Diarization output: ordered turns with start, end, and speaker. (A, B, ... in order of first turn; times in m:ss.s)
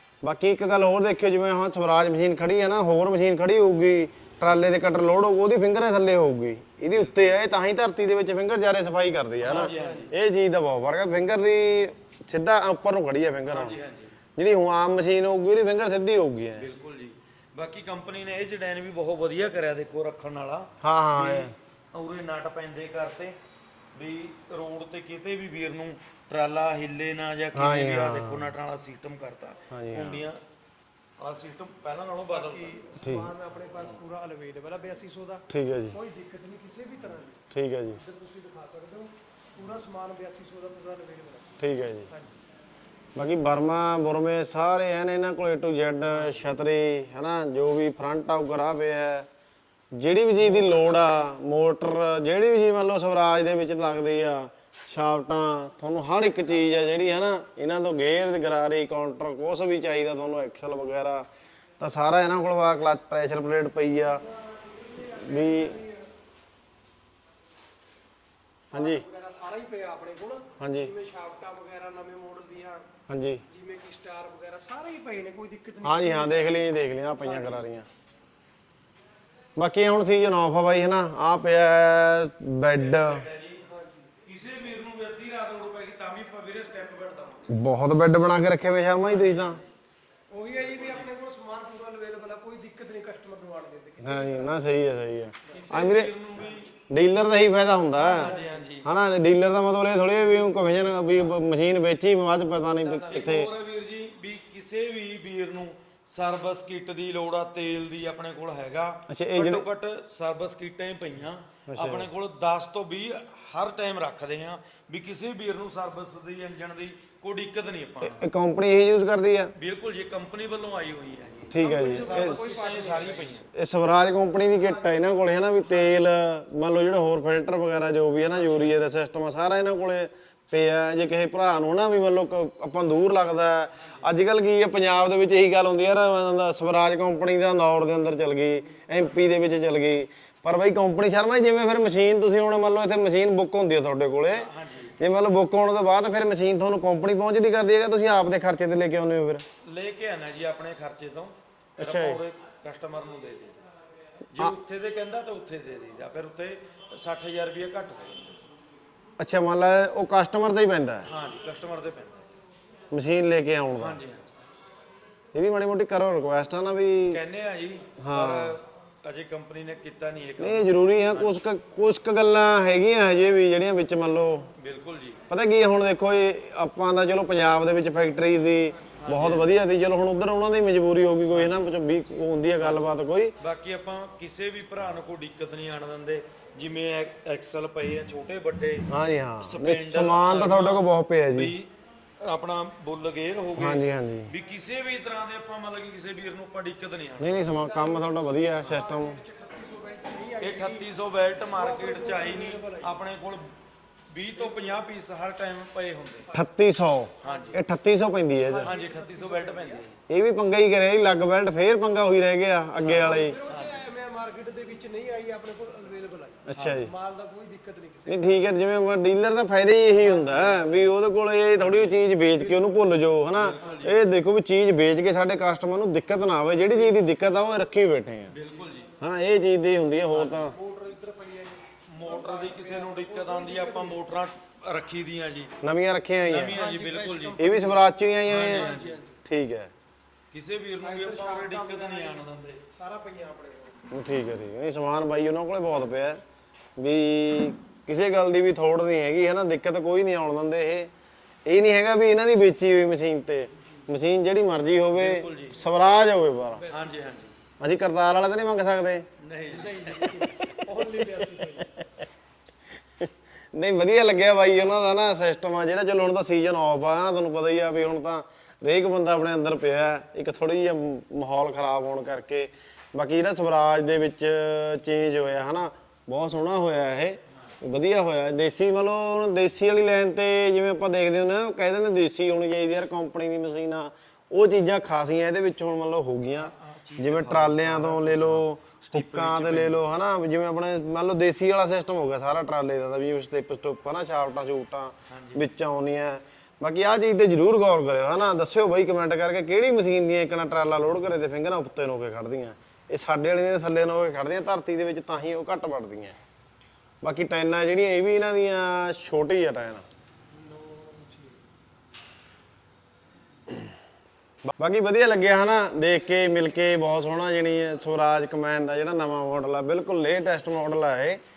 0:00.2-0:13.8 A
0:06.9-0:07.3 B
0:09.4-0:10.1 B
0:09.5-0:10.1 C
0:13.5-0:14.2 B
0:14.4-0:16.6 A
0:16.6-0:23.4 B
0:20.8-0:21.5 A
0:23.9-0:30.4 B
0:27.5-0:28.5 A
0:29.7-0:30.2 A
0:31.2-0:32.8 B
0:32.3-0:37.4 C
0:33.0-0:33.3 A
0:35.5-0:36.0 A
0:37.5-0:38.0 A
0:38.0-0:42.3 C
0:41.6-0:42.1 A
0:43.1-0:49.3 A
0:49.9-1:01.3 A
1:01.8-1:04.2 A
1:04.2-1:06.1 C
1:05.2-1:05.7 A
1:08.7-1:12.8 C
1:08.7-1:09.0 A
1:10.6-1:10.9 A
1:13.1-1:13.4 A
1:13.5-1:17.6 C
1:15.8-1:17.8 A
1:19.6-1:23.2 A
1:22.7-1:23.6 B
1:23.6-1:24.1 C
1:24.2-1:27.5 B
1:27.5-1:29.6 A
1:29.0-1:29.7 B
1:30.3-1:34.6 C
1:30.5-1:31.1 B
1:34.0-1:36.1 A
1:35.5-1:36.7 B
1:36.9-1:43.5 A
1:38.0-1:38.9 B
1:38.0-1:38.6 C
1:42.8-1:43.4 C
1:43.1-1:58.2 B
1:49.1-1:49.7 A
1:51.7-1:52.1 A
1:58.0-1:59.5 A
1:59.6-2:03.5 B
2:01.5-2:02.6 A
2:01.6-2:03.3 C
2:03.5-2:29.4 A
2:04.6-2:05.1 C
2:08.2-2:08.8 B
2:24.3-2:25.0 B
2:29.6-2:33.6 B
2:31.8-2:32.2 A
2:34.3-2:38.4 B
2:39.2-2:41.1 A
2:41.0-2:42.2 B
2:42.9-2:44.0 A
2:43.8-2:44.4 B
2:45.3-2:47.2 A
2:47.1-2:51.3 B
2:48.0-2:48.6 A
2:50.4-2:54.5 A
2:54.6-2:55.2 B
2:55.3-3:03.3 A
2:59.0-2:59.5 B
3:01.3-3:01.6 B
3:02.6-3:08.9 B
3:08.9-3:11.5 A
3:09.4-3:17.5 B
3:13.6-3:14.3 A
3:17.2-3:19.2 A
3:17.5-3:20.9 C
3:20.4-3:23.5 B
3:21.5-3:23.0 C
3:24.1-3:26.2 B
3:24.3-3:24.9 C
3:26.3-3:28.7 A
3:27.2-3:27.6 B
3:27.2-3:27.6 C
3:28.4-3:29.8 C
3:28.6-3:30.0 B
3:30.1-3:33.3 A
3:32.8-3:33.8 B
3:32.9-3:38.4 C
3:36.4-3:36.9 A
3:36.6-3:36.8 B
3:38.1-3:48.3 A
3:40.1-3:40.7 B
3:40.2-3:40.6 C
3:41.6-3:42.0 B
3:42.4-3:42.9 C
3:43.3-3:44.0 B
3:48.3-3:48.9 B
3:49.0-3:50.5 A
3:50.1-3:54.0 C
3:51.9-3:55.5 B
3:55.6-3:56.6 A
3:56.3-3:57.4 B
3:56.5-3:59.2 C
3:57.4-3:58.7 A
3:58.3-3:59.0 B
3:59.2-3:59.7 A
4:00.3-4:02.6 B
4:00.8-4:03.9 C
4:03.9-4:06.2 A
4:06.8-4:10.9 A
4:11.5-4:16.6 A
4:14.9-4:15.6 B
4:16.5-4:17.0 C
4:16.7-4:17.3 B
4:17.6-4:19.0 A
4:19.2-4:20.2 B
4:19.5-4:21.8 C
4:23.0-5:06.2 A
4:46.4-4:49.8 B
4:55.1-4:55.4 B
5:07.0-5:09.8 A
5:10.3-5:11.4 C
5:14.4-5:21.2 A